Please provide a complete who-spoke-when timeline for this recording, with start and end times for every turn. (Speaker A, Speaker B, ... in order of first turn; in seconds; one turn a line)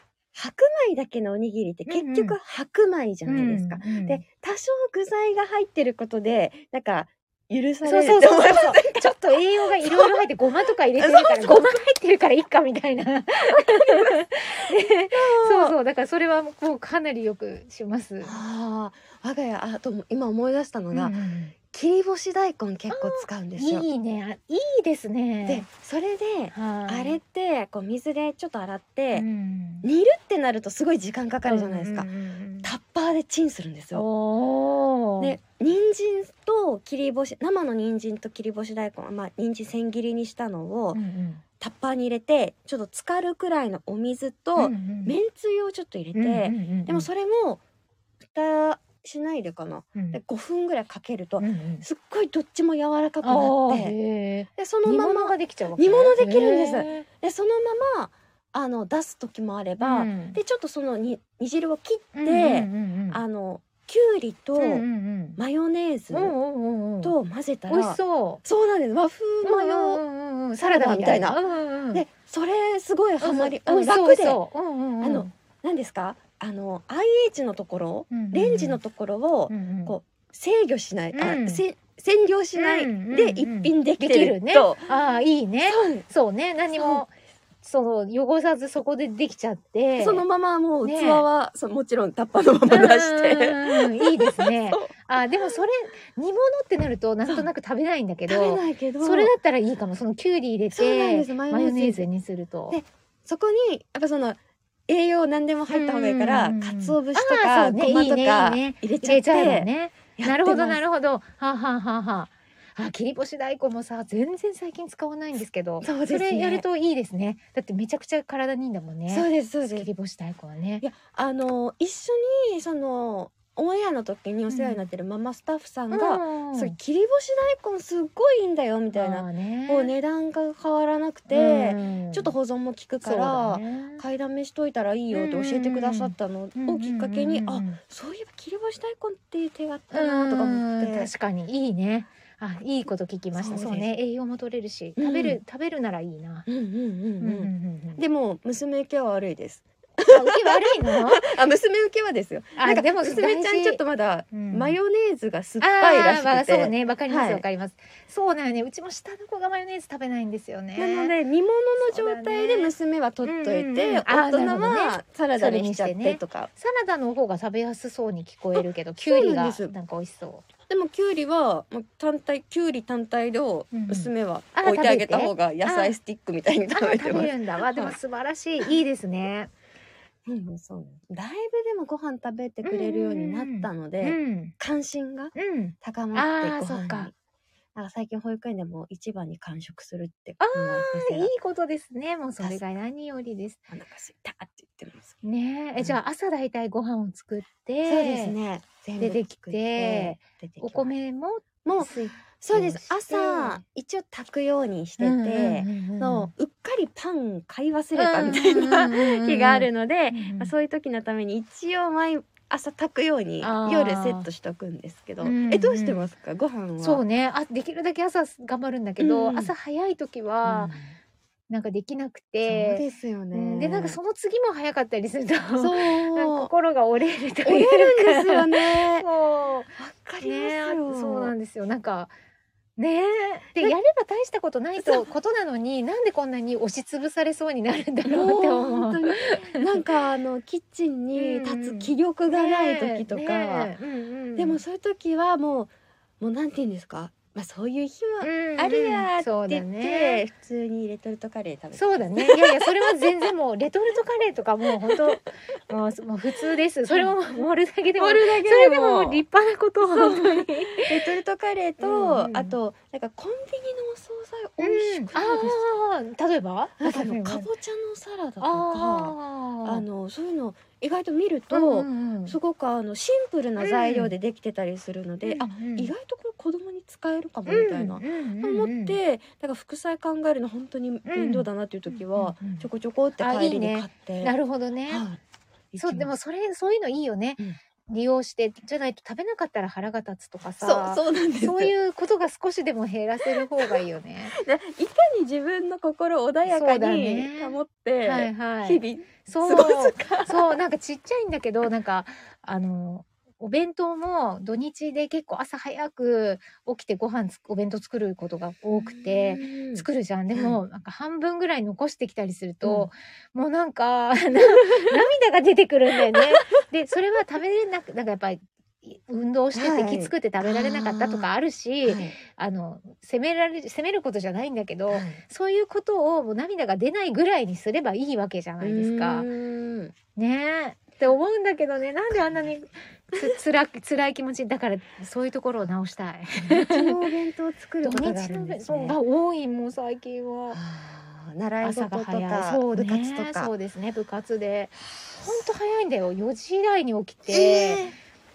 Speaker A: 0.3-10.3
Speaker B: 1.9-2.4
Speaker B: 3.3-4.2
Speaker B: 7.8-18.4
Speaker A: 10.9-11.8
Speaker A: 13.8-15.8
Speaker A: 18.2-21.2
Speaker B: 20.9-21.6
Speaker A: 21.7-23.9
Speaker B: 22.9-25.7
Speaker A: 25.4-29.3
Speaker B: 26.5-27.2
Speaker B: 29.1-29.9
Speaker A: 29.8-32.1
Speaker B: 31.5-32.7
Speaker A: 32.6-34.1
Speaker B: 33.9-35.4
Speaker A: 35.2-41.0
Speaker B: 40.9-41.4
Speaker A: 41.6-47.6
Speaker B: 44.6-45.1
Speaker B: 46.1-47.1
Speaker A: 48.2-54.0
Speaker B: 51.4-51.9
Speaker B: 53.2-57.1
Speaker A: 54.6-64.9
Speaker B: 59.8-60.4
Speaker B: 62.1-63.2
Speaker B: 64.6-65.4
Speaker A: 65.4-66.3
Speaker B: 66.1-67.2
Speaker A: 67.0-70.0
Speaker B: 67.7-68.4
Speaker B: 69.4-72.0
Speaker A: 70.6-71.4
Speaker A: 71.9-74.4
Speaker B: 73.2-75.3
Speaker A: 75.0-84.9
Speaker B: 78.1-78.8
Speaker B: 79.5-80.0
Speaker B: 81.1-81.6
Speaker B: 82.5-87.1
Speaker A: 85.7-86.1
Speaker A: 86.7-87.0
Speaker B: 87.6-90.3
Speaker A: 90.0-95.6
Speaker B: 90.8-91.3
Speaker B: 92.7-102.8
Speaker A: 98.3-99.3
Speaker A: 100.7-102.0
Speaker A: 102.7-110.8
Speaker B: 105.7-120.8
Speaker A: 115.8-116.6
Speaker A: 119.1-119.9
Speaker A: 120.8-141.1
Speaker B: 124.5-124.9
Speaker B: 125.9-126.8
Speaker B: 128.9-129.9
Speaker B: 131.3-132.3
Speaker B: 133.0-134.0
Speaker B: 135.1-137.8
Speaker B: 139.9-146.5
Speaker A: 143.3-143.9
Speaker A: 145.0-145.4
Speaker A: 146.5-157.4
Speaker B: 147.2-148.0
Speaker B: 150.1-151.3
Speaker B: 152.6-154.8
Speaker B: 155.6-161.2
Speaker A: 160.8-166.5
Speaker B: 161.8-170.5
Speaker A: 168.6-169.7
Speaker A: 170.7-178.0
Speaker B: 173.7-176.0
Speaker B: 176.7-179.5
Speaker A: 180.3-187.1
Speaker B: 182.6-184.6
Speaker B: 185.3-187.1
Speaker A: 187.8-191.3
Speaker B: 190.4-193.6
Speaker A: 192.4-192.7
Speaker A: 193.7-195.2
Speaker B: 195.2-198.3
Speaker A: 197.8-200.9
Speaker B: 199.0-203.6
Speaker A: 201.7-217.0
Speaker B: 205.0-206.3
Speaker B: 207.9-210.5
Speaker B: 213.4-214.3
Speaker B: 215.2-216.1
Speaker B: 216.8-220.8
Speaker A: 219.0-219.5
Speaker A: 220.4-220.9
Speaker B: 221.5-232.1
Speaker A: 222.4-224.0
Speaker A: 225.6-226.5
Speaker A: 227.4-229.1
Speaker A: 229.8-231.3
Speaker B: 232.8-239.8
Speaker A: 234.8-235.1
Speaker A: 238.1-243.7
Speaker B: 241.2-244.6
Speaker A: 244.4-253.2
Speaker B: 248.2-250.2
Speaker B: 251.8-260.9
Speaker A: 254.9-255.2
Speaker A: 256.9-257.5
Speaker A: 258.0-259.2
Speaker A: 259.8-265.8
Speaker B: 261.8-262.6
Speaker B: 264.6-267.5
Speaker A: 266.8-284.4
Speaker B: 268.4-269.9
Speaker B: 271.5-272.4
Speaker B: 273.6-274.1
Speaker B: 275.2-275.9
Speaker B: 277.5-279.0
Speaker B: 281.1-282.7
Speaker B: 283.2-285.1
Speaker A: 284.9-285.2
Speaker A: 285.7-286.1
Speaker B: 285.8-294.4
Speaker A: 290.6-291.7
Speaker A: 293.2-300.6
Speaker B: 296.5-329.3
Speaker A: 308.7-310.6
Speaker A: 312.6-312.9
Speaker A: 319.5-321.3
Speaker A: 321.9-322.2
Speaker A: 324.9-325.2
Speaker A: 328.6-329.9
Speaker B: 330.2-337.1
Speaker A: 336.4-339.0
Speaker B: 337.8-340.6
Speaker A: 340.5-343.5
Speaker B: 341.6-347.9
Speaker A: 345.1-345.4
Speaker A: 347.3-347.9